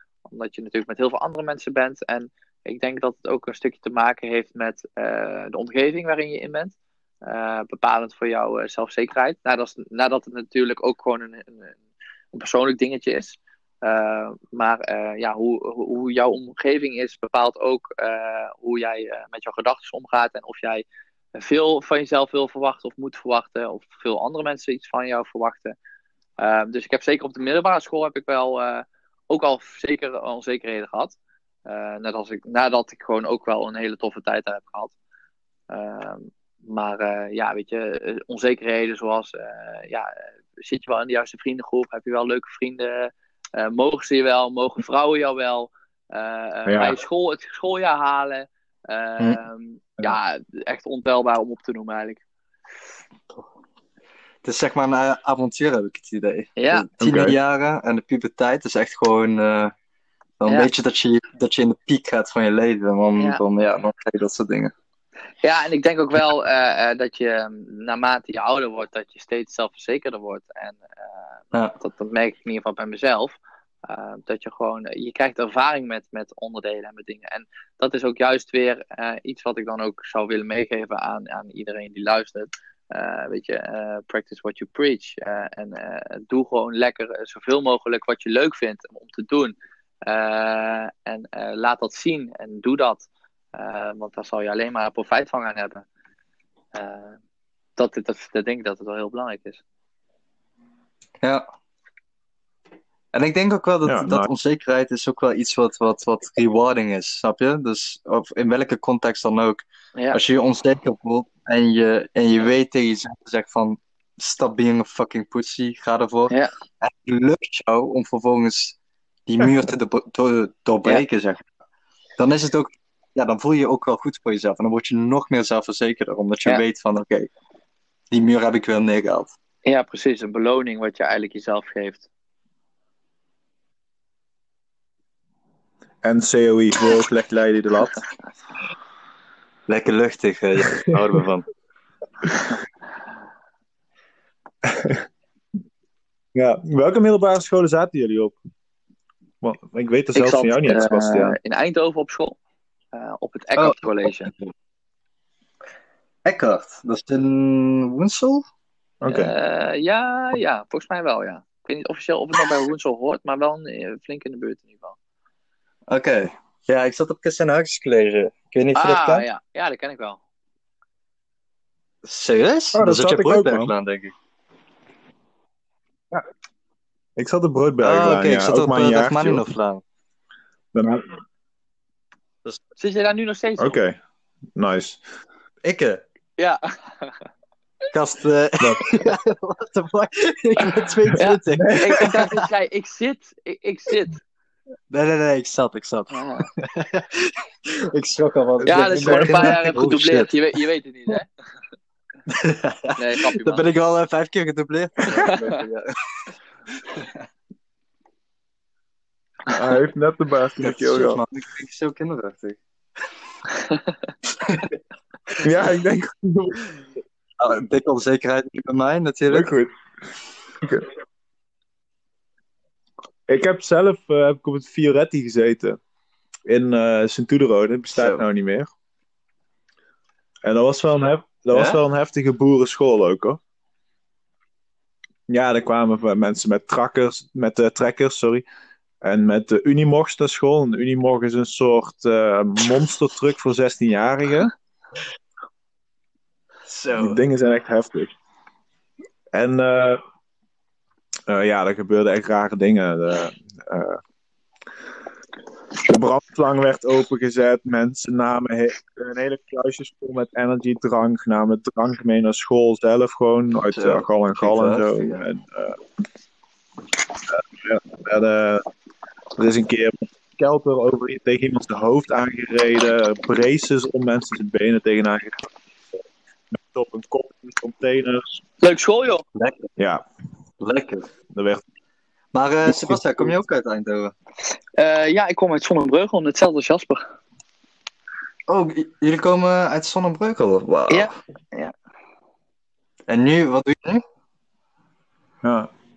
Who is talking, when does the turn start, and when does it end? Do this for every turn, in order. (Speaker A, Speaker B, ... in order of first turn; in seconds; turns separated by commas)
Speaker A: 0.2-11.8, Speaker A: 12.3-25.7, Speaker A: 26.4-31.1, Speaker A: 31.6-34.9, Speaker A: 35.7-52.2, Speaker B: 46.6-47.0, Speaker C: 54.4-59.7, Speaker A: 56.6-56.9, Speaker B: 57.0-57.3, Speaker C: 60.4-64.7, Speaker A: 65.4-95.8, Speaker A: 96.7-97.2, Speaker A: 97.8-99.6, Speaker C: 103.1-121.4, Speaker B: 103.8-104.3, Speaker C: 122.2-127.3, Speaker C: 128.1-129.3, Speaker A: 129.6-132.1, Speaker B: 136.0-138.0, Speaker C: 139.7-141.4, Speaker B: 144.6-145.0, Speaker B: 146.3-148.3, Speaker B: 149.4-151.4, Speaker A: 150.1-152.4, Speaker A: 152.9-154.3, Speaker C: 153.6-154.5, Speaker C: 156.2-158.4, Speaker B: 159.0-159.3, Speaker A: 159.1-164.9, Speaker C: 165.9-169.2, Speaker A: 168.7-170.2, Speaker C: 172.0-174.1, Speaker B: 172.7-173.7, Speaker B: 177.2-179.4, Speaker C: 177.8-179.8, Speaker B: 180.7-181.2, Speaker A: 182.8-183.7, Speaker B: 183.6-184.0, Speaker B: 184.6-185.0, Speaker C: 185.6-186.0, Speaker A: 186.4-187.2, Speaker C: 187.9-192.5, Speaker B: 188.6-189.0, Speaker A: 191.2-194.2, Speaker B: 191.6-192.0, Speaker C: 194.9-200.3, Speaker A: 196.1-196.5, Speaker B: 198.6-199.6, Speaker A: 198.7-201.3, Speaker C: 202.3-207.2, Speaker A: 203.0-203.7, Speaker A: 205.1-205.6, Speaker B: 209.5-211.2, Speaker C: 210.6-212.6, Speaker C: 214.4-214.7, Speaker B: 215.4-216.8, Speaker C: 217.4-219.5, Speaker B: 219.3-219.7, Speaker B: 220.6-220.9, Speaker B: 223.3-225.8, Speaker B: 226.5-228.7, Speaker C: 227.9-228.2, Speaker B: 230.4-233.4, Speaker C: 231.5-231.8, Speaker B: 235.3-238.4, Speaker B: 239.0-244.5, Speaker C: 246.7-247.2, Speaker B: 246.9-248.1, Speaker B: 249.3-250.0, Speaker B: 251.3-254.0, Speaker B: 255.8-265.8, Speaker C: 263.6-265.2, Speaker B: 267.3-268.7, Speaker B: 269.4-275.4, Speaker B: 276.5-278.4, Speaker A: 278.6-279.2, Speaker C: 279.3-279.7, Speaker B: 279.8-280.0, Speaker C: 280.6-281.1, Speaker B: 281.3-281.6, Speaker C: 282.3-284.1, Speaker B: 282.7-283.3, Speaker A: 284.7-287.1, Speaker C: 288.5-291.1, Speaker A: 290.9-291.7, Speaker C: 293.1-294.0, Speaker B: 295.4-295.7